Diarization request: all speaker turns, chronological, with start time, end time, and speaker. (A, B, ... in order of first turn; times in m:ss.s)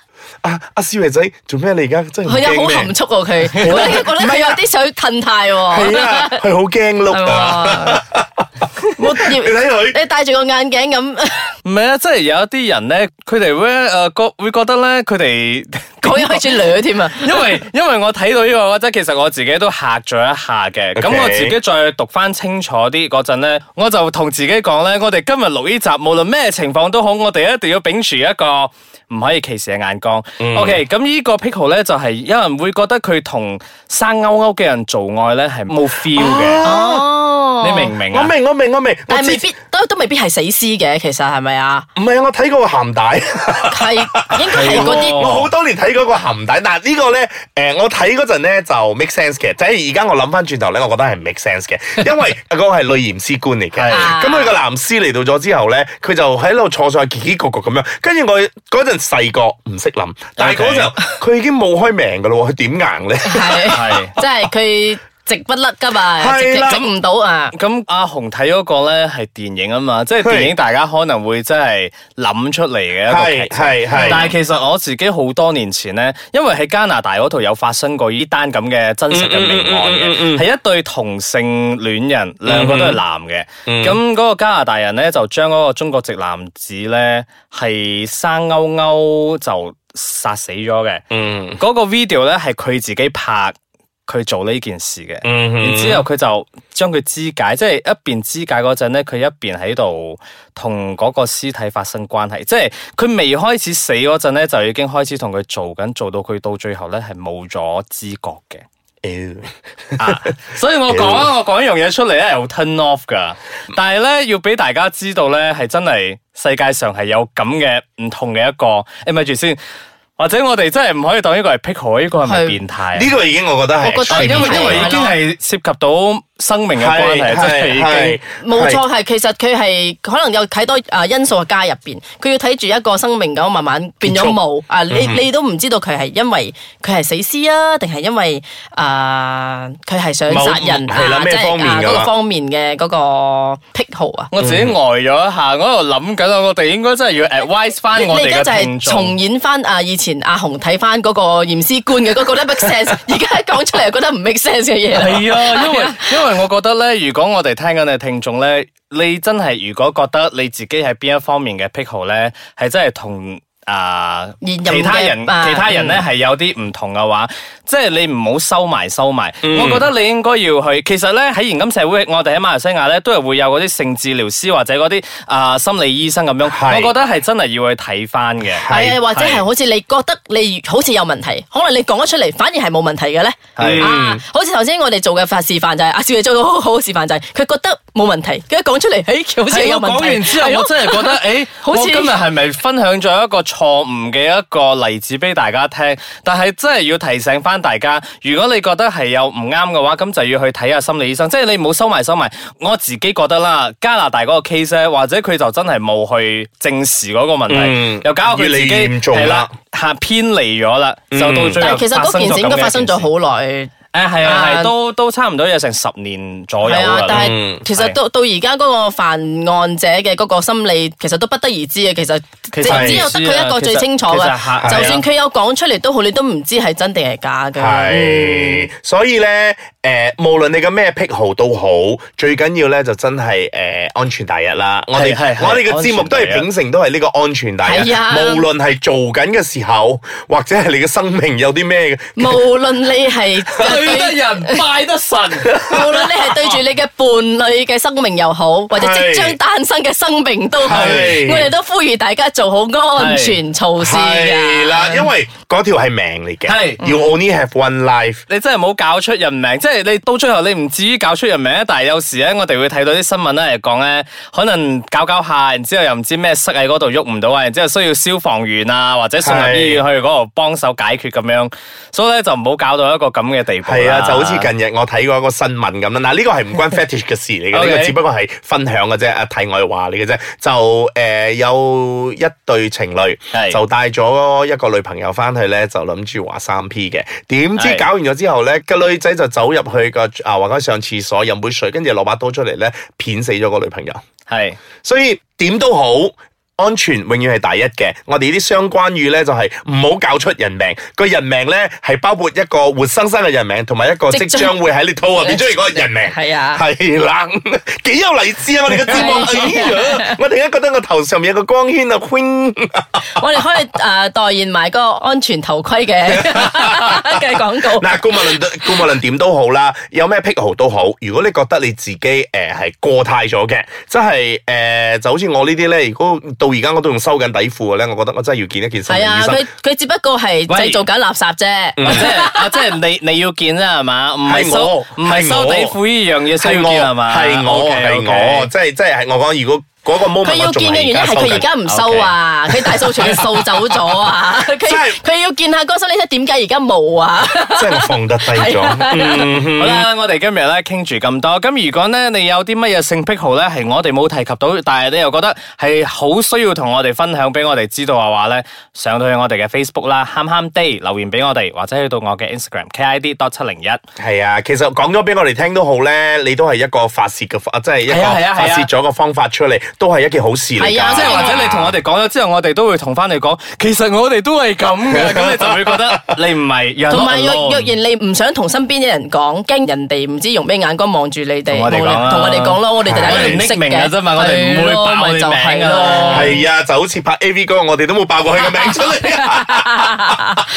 0:00.4-0:02.9 A
0:02.2-0:06.4 B
0:03.4-0:04.6 A
0:03.5-0:03.9 C
0:05.7-0:08.4 A
0:07.1-0:08.0 B
0:08.9-0:11.6 B
0:09.0-0:10.0 A
0:11.6-0:36.7 C
0:16.0-0:17.4 B
0:21.0-0:21.6 A
0:30.4-0:30.8 A
0:36.1-0:37.1 A
0:36.6-0:37.9 B
0:37.6-0:38.3 C
0:38.1-0:39.5 A
0:39.1-0:41.9 B
0:42.0-1:04.0 A
0:43.7-0:45.2 B
0:44.5-0:45.5 C
0:53.7-0:54.1 C
0:53.9-0:54.6 B
1:00.4-1:00.9 C
1:03.2-1:07.5 B
1:03.7-1:04.1 C
1:06.2-1:06.9 A
1:07.5-1:31.0 C
1:10.2-1:10.5 A
1:13.1-1:14.3 A
1:19.1-1:20.5 A
1:22.4-1:23.0 A
1:23.7-1:24.0 A
1:31.1-1:31.6 A
1:31.6-1:33.5 C
1:34.1-1:48.6 C
1:35.2-1:36.0 A
1:49.0-1:50.2 A
1:50.0-1:59.6 C
1:50.9-1:51.3 A
2:00.2-2:03.1 C
2:02.2-2:02.6 B
2:02.9-2:05.0 A
2:03.8-2:05.2 B
2:04.1-2:08.2 C
2:06.8-2:08.8 A
2:08.4-2:24.3 B
2:14.0-2:14.4 A
2:14.9-2:15.2 A
2:20.3-2:22.1 A
2:24.3-2:29.1 C
2:24.4-2:24.8 A
2:27.9-2:36.0 B
2:34.9-2:59.4 C
2:44.4-2:46.0 B
2:49.4-2:49.9 A
2:56.5-2:56.9 A
2:58.6-2:59.0 A
2:58.7-3:12.2 B
3:03.6-3:03.9 C
3:03.6-3:04.2 A
3:09.5-3:33.1 C
3:27.5-3:29.5 A
3:31.1-3:31.7 A
3:31.6-3:34.7 B
3:33.9-3:38.0 C
3:36.6-3:48.7 B
3:37.1-3:37.6 A
3:42.5-3:45.0 C
3:42.7-3:43.1 A
3:44.6-3:45.0 A
3:47.6-4:02.4 A
3:55.0-3:56.4 C
3:57.6-3:58.4 B
4:02.2-4:04.6 B
4:03.5-4:06.1 C
4:05.5-4:05.8 A
4:05.6-4:15.0 B
4:08.7-4:09.4 A
4:10.6-4:11.5 A
4:10.7-4:11.2 C
4:13.0-4:13.4 C
4:13.8-4:18.2 A
4:16.4-4:16.8 C
4:18.3-4:34.5 C
4:29.2-4:29.8 A
4:33.6-4:54.0 A
4:37.5-4:38.0 C
4:43.3-4:43.6 C
4:47.6-4:47.8 C
4:54.3-4:54.6 C
4:54.8-5:13.2 A
5:04.1-5:04.5 B
5:05.2-5:06.6 B
5:08.8-5:09.5 C
5:08.9-5:10.2 B
5:13.1-5:18.6 B
5:16.1-5:29.5 A
5:28.9-5:32.5 B
5:30.5-5:30.8 C
5:31.8-5:32.1 A
5:31.8-5:38.5 C
5:34.2-5:35.7 A
5:36.4-5:41.5 A
5:40.2-5:49.3 B
5:41.6-5:43.8 C
5:44.5-5:45.0 A
5:47.4-5:49.9 A
5:49.0-6:03.8 C
6:04.0-6:11.7 A
6:07.9-6:08.7 C
6:10.6-6:11.6 B
6:10.9-6:17.7 C
6:16.9-6:26.4 B
6:21.5-6:26.4 C
6:22.8-6:23.4 A
6:26.1-6:30.2 A
6:29.0-6:30.2 B